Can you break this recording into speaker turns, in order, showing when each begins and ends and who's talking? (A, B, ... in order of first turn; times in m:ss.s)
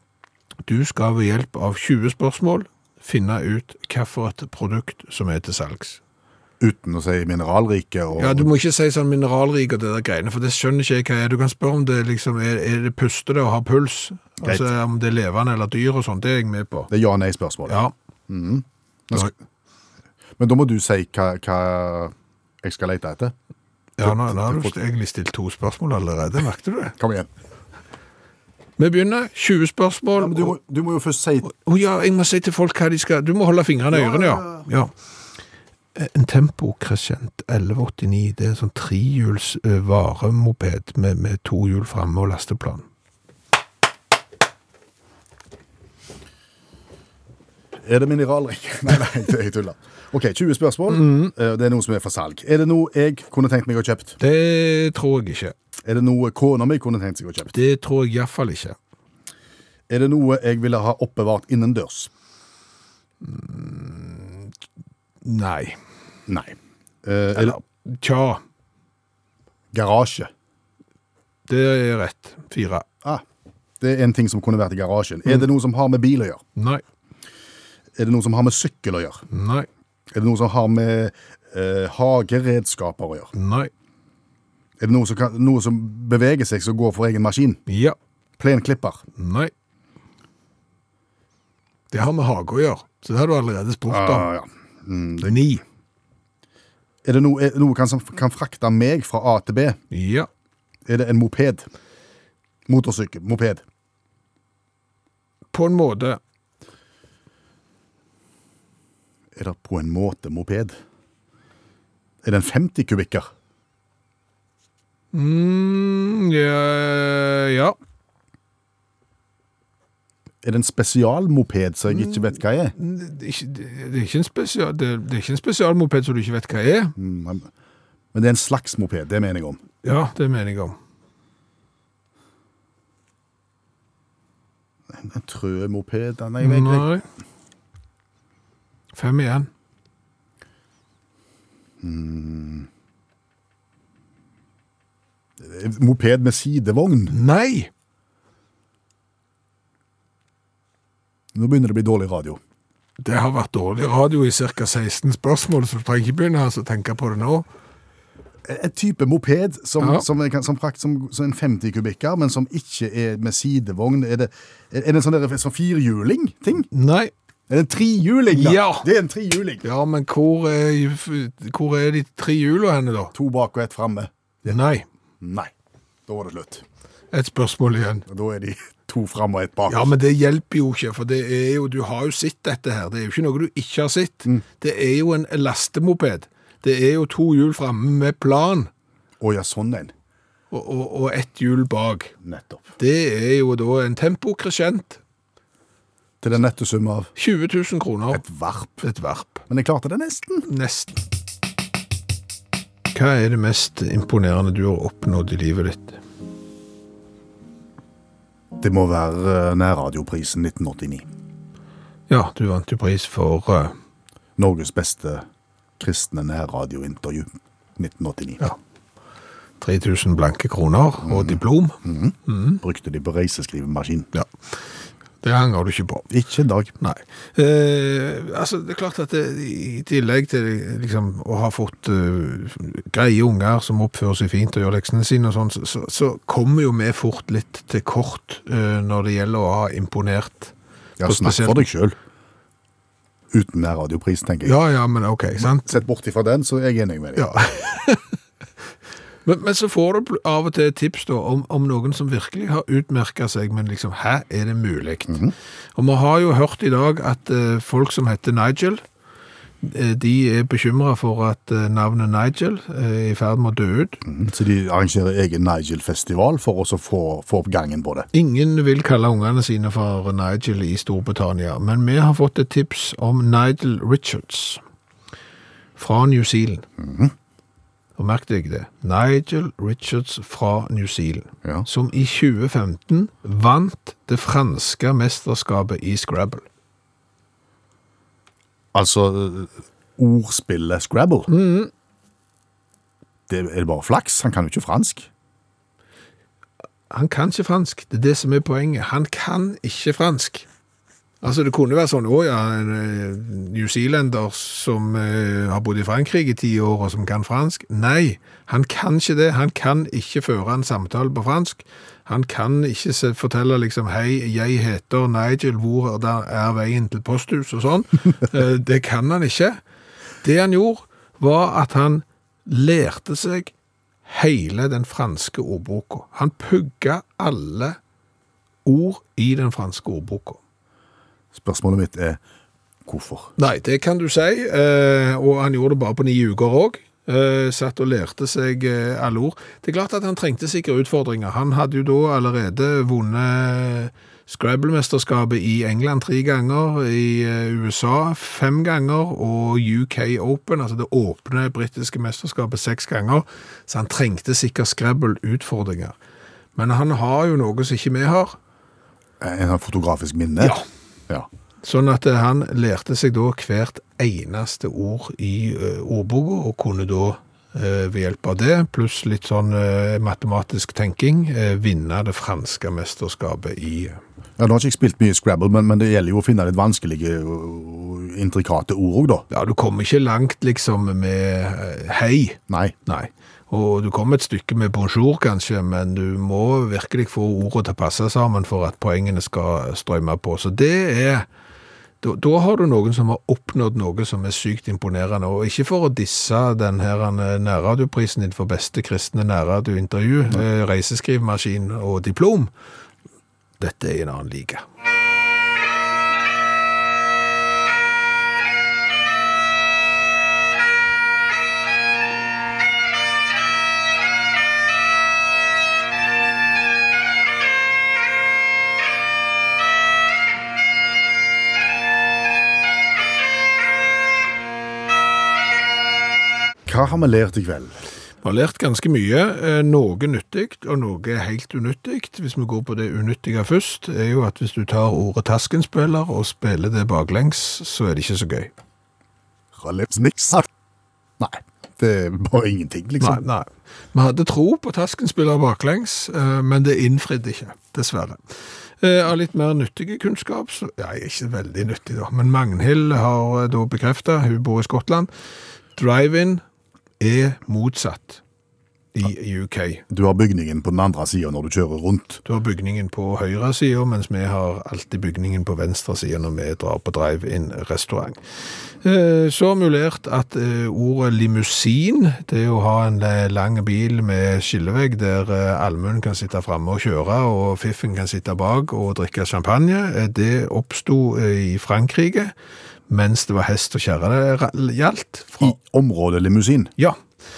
0:00.6-0:06.0 A
0:06.6-0:08.5 B
0:08.2-0:16.9 A
0:16.9-0:19.3 B
0:17.7-0:17.9 A
0:20.4-0:23.3 B
0:24.0-0:26.9 A
0:24.0-0:24.8 B
0:27.0-0:27.3 B
0:28.8-0:30.6 A
0:30.1-0:31.5 B
0:31.4-0:34.9 A
0:33.9-0:34.7 B
0:36.0-0:42.8 A
0:47.8-0:54.2 B
0:50.9-0:51.3 A
0:54.2-0:55.5 A
0:55.8-0:57.5 B
0:57.5-0:58.8 A
0:59.9-1:02.1 B
1:03.2-1:04.5 A
1:05.2-1:05.8 A
1:06.3-1:07.6 B
1:07.3-1:08.4 A
1:09.7-1:10.3 B
1:11.5-1:12.8 A
1:13.8-1:16.4 B
1:16.6-1:16.8 A
1:18.0-1:19.2 B
1:19.3-1:19.7 A
1:20.1-1:23.3 B
1:23.3-1:23.7 A
1:24.8-1:27.6 B
1:27.7-1:28.0 A
1:28.4-1:29.0 B
1:29.2-1:29.5 A
1:31.9-1:34.3 A
1:33.9-1:35.4 B
1:35.2-1:35.6 A
1:37.0-1:39.8 B
1:39.9-1:40.3 A
1:40.8-1:41.7 B
1:42.7-1:43.6 B
1:45.5-1:46.2 A
1:49.4-1:50.8 B
1:52.2-1:53.3 B
1:55.1-1:57.8 A
2:00.4-2:02.7 B
2:02.0-2:06.9 A
2:07.0-2:07.5 B
2:08.1-2:09.6 B
2:09.8-2:10.8 A
2:14.9-2:16.9 B
2:16.4-2:17.0 A
2:18.9-2:19.5 A
2:21.8-2:22.7 B
2:25.4-2:27.1 B
2:27.1-2:27.7 A
2:31.3-2:32.4 B
2:33.0-2:37.4 A
2:38.4-2:46.7 B
2:46.7-2:47.1 A
2:47.5-2:49.6 B
2:48.3-2:48.8 A
2:49.6-2:53.1 A
2:53.1-2:54.6 B
2:54.5-2:54.8 A
2:55.2-2:55.5 B
2:56.1-2:56.6 B
2:57.1-2:58.0 A
2:58.0-2:59.9 B
2:59.7-3:08.7 A
3:09.2-3:09.9 B
3:10.5-3:12.1 A
3:12.2-3:12.6 B
3:12.8-3:15.0 A
3:16.2-3:17.1 B
3:17.2-3:18.2 A
3:18.1-3:18.8 B
3:18.8-3:19.4 A
3:19.5-3:20.5 B
3:20.5-3:21.0 A
3:22.9-3:26.0 A
3:28.6-3:31.1 B
3:32.1-3:33.7 A
3:34.4-3:35.2 B
3:35.8-3:38.4 B
3:39.6-3:41.8 A
3:41.0-3:44.1 B
3:42.3-3:42.6 A
3:44.1-3:44.6 A
3:45.2-3:46.1 A
3:46.1-3:46.7 B
3:46.8-4:01.7 A
4:01.0-4:02.0 B
4:03.3-4:04.6 B
4:04.4-4:05.8 A
4:05.4-4:07.3 B
4:07.2-4:08.0 A
4:09.2-4:15.2 A
4:15.1-4:15.3 B
4:15.7-4:18.8 A
4:19.6-4:24.0 A
4:24.0-4:28.1 B
4:28.1-4:34.6 A
4:35.8-4:36.6 A
4:36.8-4:37.1 B
4:38.0-4:46.4 A
4:48.7-4:51.3 B
4:51.3-4:51.7 A
4:53.3-4:55.1 B
4:56.9-5:00.5 A
5:01.2-5:19.6 A
5:20.2-5:23.5 A
5:24.0-5:27.8 A
5:28.6-5:30.4 A
5:31.3-5:32.2 B
5:32.8-5:33.3 B
5:33.4-5:56.0 A
5:56.6-5:58.4 A
5:59.2-6:01.3 B
6:01.6-6:14.0 A
6:14.4-6:19.2 B
6:19.3-6:31.2 A
6:32.0-6:42.5 A
6:43.6-6:44.6 A
7:06.6-7:07.8 B
7:08.2-7:18.5 A
7:19.5-7:20.5 B
7:21.2-7:23.2 B
7:23.0-7:35.1 A
7:35.8-7:36.4 A
7:37.0-7:38.2 A
7:38.9-7:39.8 A
7:39.9-7:42.2 B
7:42.2-7:48.2 A
7:48.8-8:02.3 A
8:02.9-8:05.5 A
8:05.4-8:06.7 B